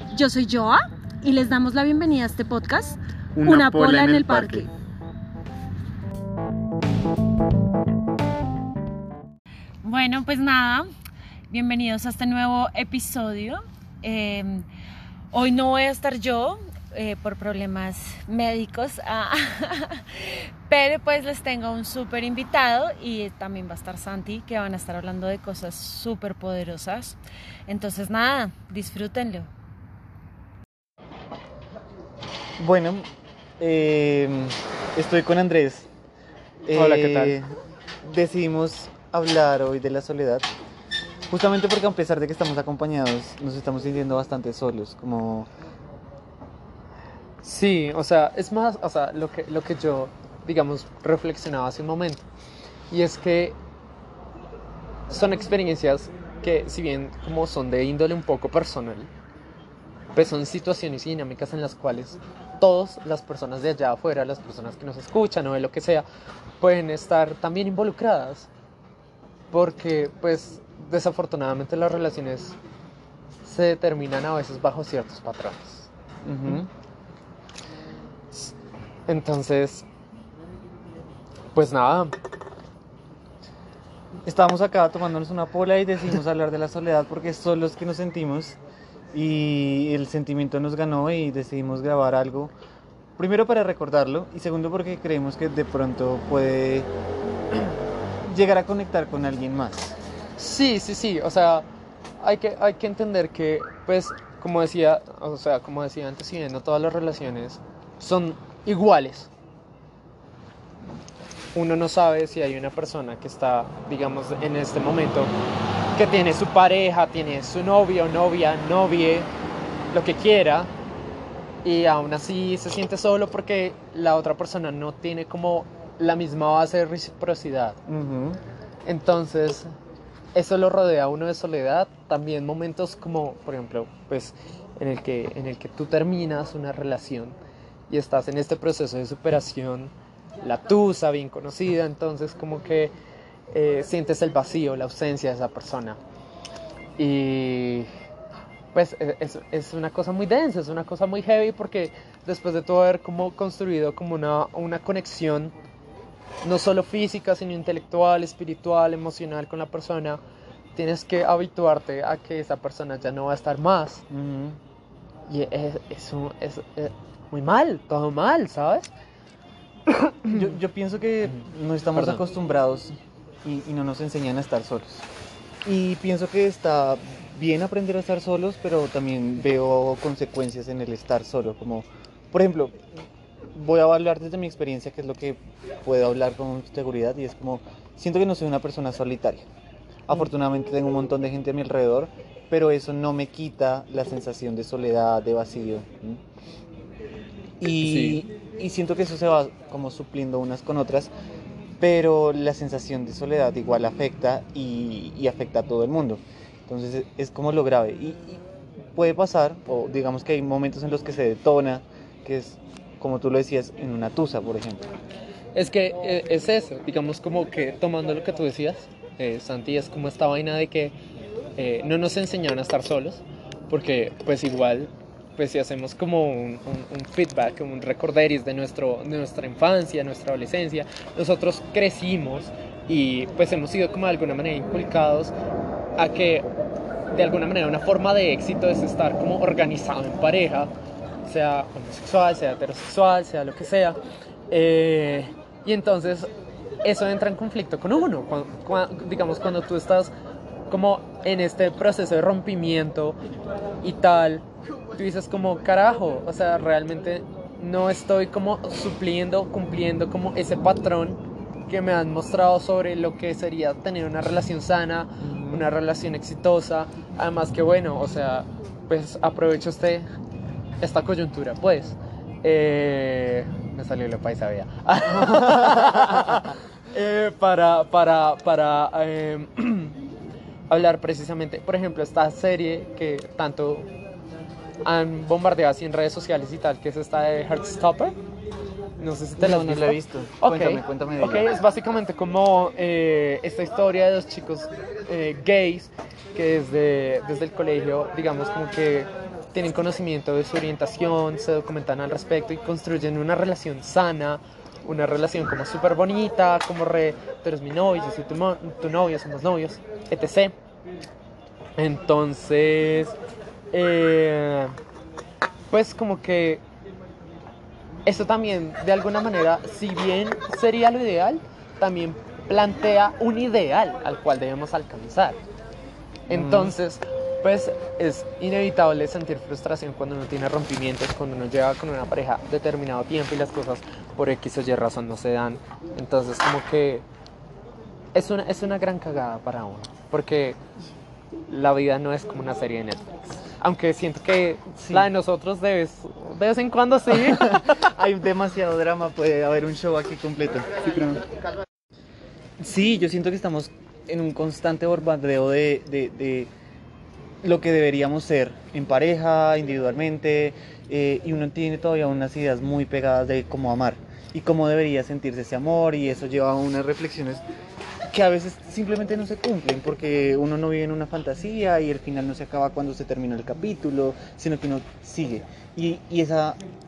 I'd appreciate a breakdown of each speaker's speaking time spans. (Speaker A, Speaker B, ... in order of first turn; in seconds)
Speaker A: 0.1-4.7, 9.8-10.9, 11.5-14.7, 15.3-29.5
Speaker B: 3.4-4.7, 32.6-35.9, 36.7-37.5, 38.0-40.5, 41.3-45.5, 76.2-76.7, 84.3-88.6, 89.1-92.5, 93.2-96.9, 97.5-100.0, 127.9-128.4, 164.1-164.6, 170.3-175.1, 175.7-182.8, 183.5-189.5, 190.1-196.2, 197.6-201.1, 201.8-208.4, 208.9-214.9, 265.2-265.7, 275.4-276.4, 289.4-291.5, 326.3-326.8, 344.8-345.1, 347.1-351.3, 352.6-356.5, 357.4-367.4, 368.1-376.6
Speaker C: 36.7-37.4, 47.4-52.3, 52.9-53.6, 55.1-59.1, 60.1-66.0, 66.6-68.5, 69.5-72.6, 73.4-75.9, 79.1-79.9, 81.5-82.2, 100.4-101.7, 102.2-109.3, 111.5-115.3, 116.0-119.3, 119.9-120.7, 121.6-127.8, 128.9-129.7, 130.3-137.4, 137.9-142.9, 143.5-146.0, 147.0-147.9, 148.7-155.5, 156.4-160.2, 160.8-164.0, 165.3-168.9, 169.9-170.5, 172.0-172.2, 197.8-198.2, 215.6-220.9, 221.6-235.3, 236.0-236.5, 237.1-240.7, 241.2-244.0, 244.5-246.3, 246.8-250.1, 250.7-253.2, 253.8-270.1, 270.8-280.0, 280.7-283.9, 284.8-288.2, 289.0-310.6, 311.8-313.2, 313.7-314.8, 315.7-316.6, 318.1-325.4, 326.3-337.1, 338.1-340.6, 341.5-347.8